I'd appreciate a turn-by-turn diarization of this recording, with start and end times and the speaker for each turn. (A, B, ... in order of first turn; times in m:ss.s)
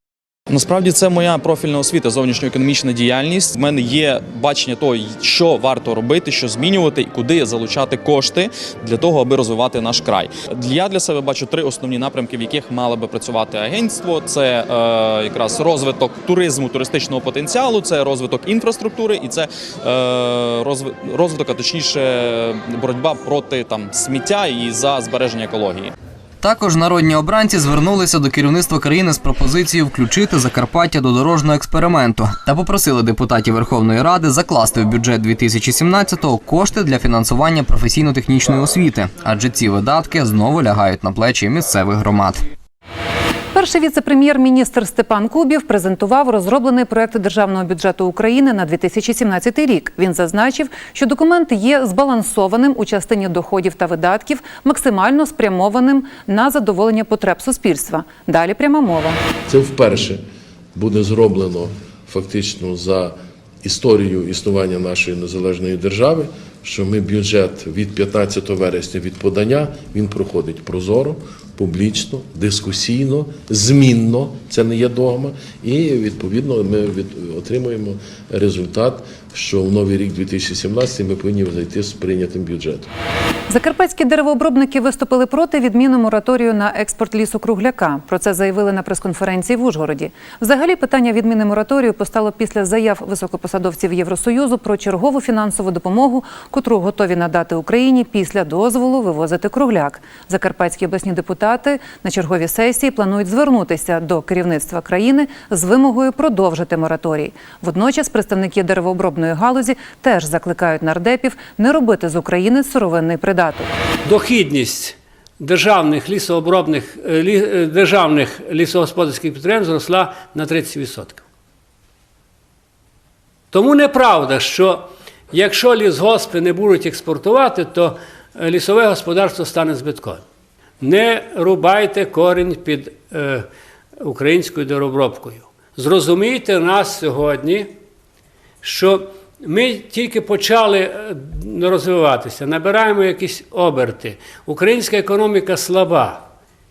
0:00.5-0:25.9 A
0:26.4-0:42.4 B
0:43.5-0:59.2 C
0:59.5-1:00.2 D
1:00.8-1:22.9 D
1:23.5-1:53.7 C
1:54.0-2:01.2 E
2:03.5-2:10.2 E
2:10.8-2:13.5 E
2:14.0-2:17.7 E
2:18.6-2:26.2 E